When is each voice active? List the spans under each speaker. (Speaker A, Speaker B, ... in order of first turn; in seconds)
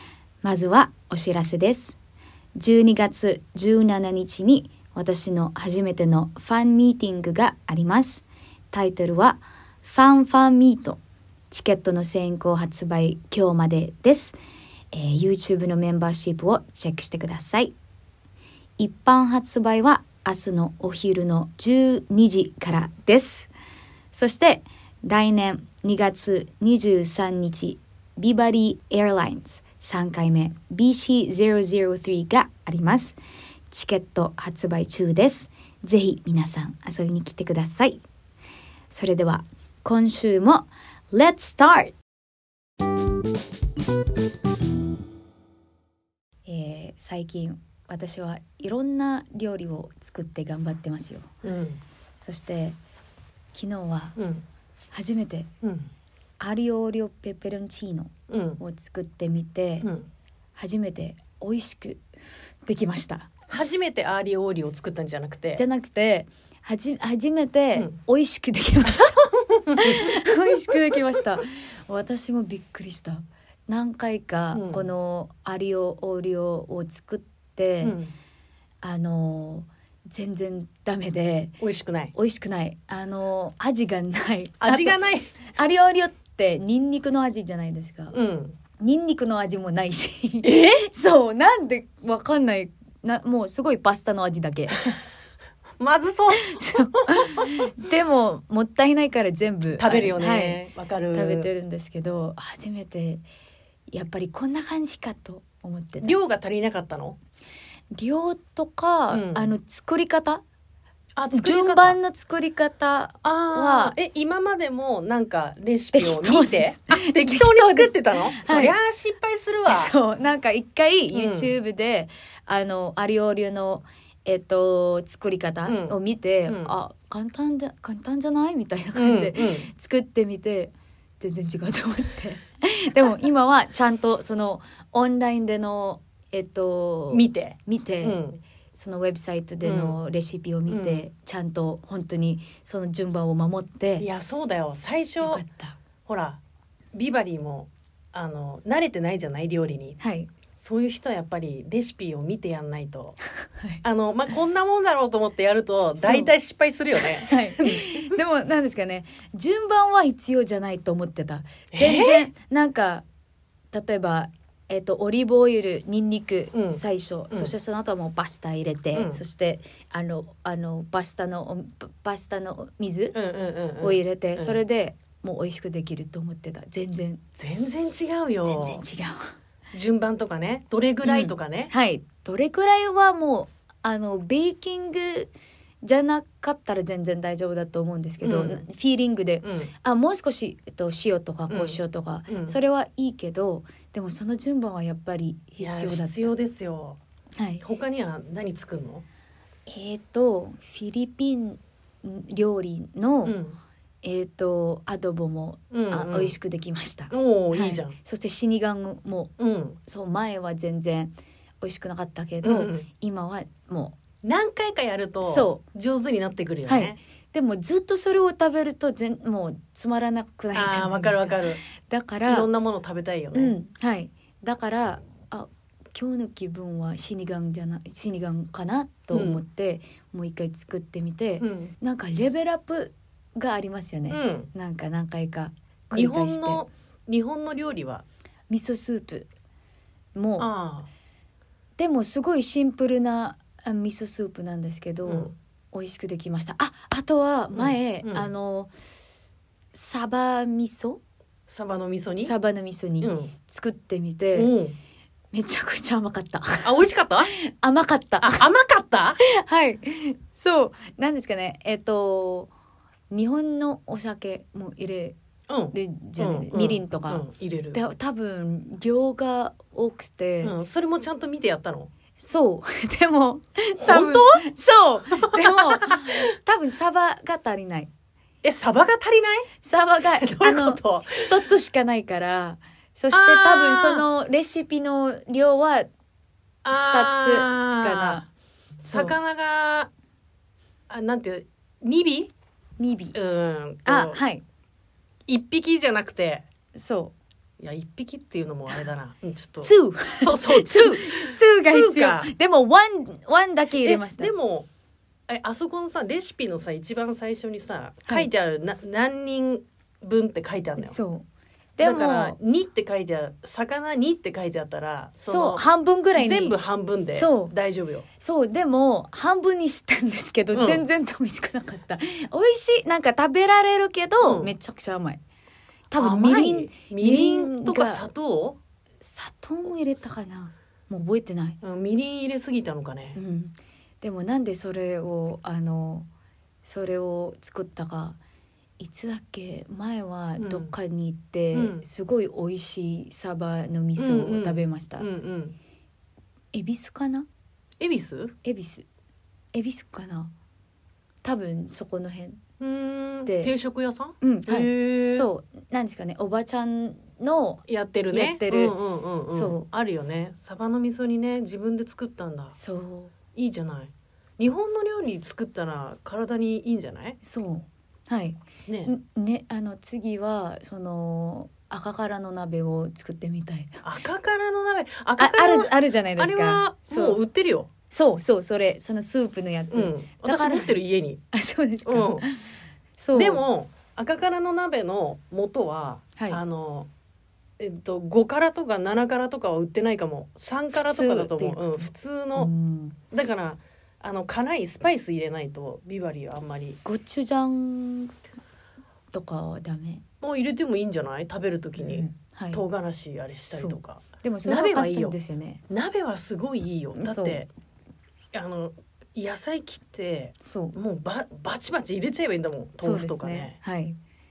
Speaker A: 0.4-2.0, 2.5-11.0, 11.5-14.3, 14.9-17.7, 18.8-23.5, 24.1-33.2, 33.7-38.0, 38.9-41.9, 46.5-51.3, 52.2-52.8, 53.5-54.2, 54.9-55.5, 56.4-59.9, 60.5-62.0, 62.6-63.4, 65.5-69.2, 69.8-78.0, 78.8-81.5, 82.1-85.0, 85.5-88.2, 88.8-95.0, 96.5-103.2, 103.9-106.1, 107.9-110.4, 111.3-113.9, 115.9-118.8, 119.7-138.2, 138.7-144.1, 145.2-145.8, 150.0-150.3, 153.5-153.8, 156.0-156.3, 157.0-163.0, 163.7-173.2, 173.8-177.2, 178.4-179.3, 181.0-185.3, 185.8-196.3, 197.4-197.6, 199.7-203.4, 204.0-209.3, 209.8-213.9, 215.2-215.6, 216.7-222.5, 223.3-236.6, 238.5-239.3, 240.1-240.5, 241.8-248.7, 249.7-251.0, 252.2-254.5, 255.3-258.4, 259.2-262.5, 263.1-265.2, 265.7-270.5, 272.2-277.9, 279.6-285.9, 286.7-288.2, 288.8-289.1, 292.8-293.2, 293.9-294.4, 296.7-297.1, 299.6-304.3, 310.8-311.2, 311.8-312.3, 315.3-316.6, 317.1-317.5, 318.2-325.2, 325.9-328.1, 329.0-331.6, 333.1-336.1, 336.6-338.2, 338.8-345.1, 346.5-347.3, 348.4-348.8, 349.5-350.3, 351.2-352.4, 353.2-353.5, 354.2-358.8, 359.3-359.6, 362.5-363.1, 367.2-373.8, 375.2-377.2, 377.9-380.8, 381.3-382.4, 383.0-383.4, 390.7-393.0, 396.8-398.1, 399.1-400.0, 401.8-402.6, 403.5-405.6, 406.9-407.4, 410.4-410.8, 412.8-414.0
Speaker B: 51.4-51.8, 54.2-54.4, 55.6-55.9, 58.3-58.6, 59.8-60.1, 63.5-65.6, 68.8-70.3, 74.5-74.9, 77.8-78.1, 81.6-82.1, 84.6-85.3, 88.1-88.6, 90.4-90.9, 95.8-97.7, 99.8-101.5, 106.0-107.2, 109.1-109.5, 111.2-112.0, 113.2-119.9, 121.1-121.5, 125.7-126.0, 126.5-126.7, 128.9-129.7, 137.1-138.4, 139.6-139.9, 140.7-141.0, 144.0-145.4, 146.1-146.4, 146.9-150.0, 150.6-153.2, 153.8-158.2, 161.7-162.3, 166.5-167.5, 168.9-169.2, 173.1-174.6, 177.4-178.8, 179.7-181.7, 188.2-188.6, 189.4-189.7, 191.5-192.6, 195.6-197.0, 197.6-199.0, 203.2-203.6, 205.7-206.3, 207.1-207.9, 209.4-209.8, 212.4-212.9, 214.2-217.0, 220.5-221.6, 222.3-223.6, 229.1-229.4, 231.4-231.7, 234.1-234.5, 235.9-238.0, 240.4-240.9, 245.1-245.3, 247.5-248.3, 251.5-252.3, 253.0-253.3, 254.3-254.8, 256.6-257.3, 258.2-259.2, 265.5-267.8, 270.4-271.9, 273.8-274.4, 275.2-276.2, 278.4-279.5, 280.2-281.5, 283.1-284.0, 286.6-288.3, 288.8-289.9, 290.9-292.3, 293.1-294.2, 295.3-296.4, 297.6-302.3, 303.8-304.7, 305.3-310.9, 311.8-315.6, 316.1-318.1, 320.5-320.9, 324.2-324.5, 326.0-328.6, 331.6-333.2, 340.4-340.7, 341.5-341.8, 344.0-345.6, 347.8-348.3, 352.6-355.3, 357.7-362.6, 363.3-367.2, 368.7-368.9, 373.8-377.7, 379.7-381.2, 381.8-382.2, 383.1-386.9, 387.6-392.5, 393.1-396.8, 400.2-405.1, 405.7-407.5, 408.3-413.6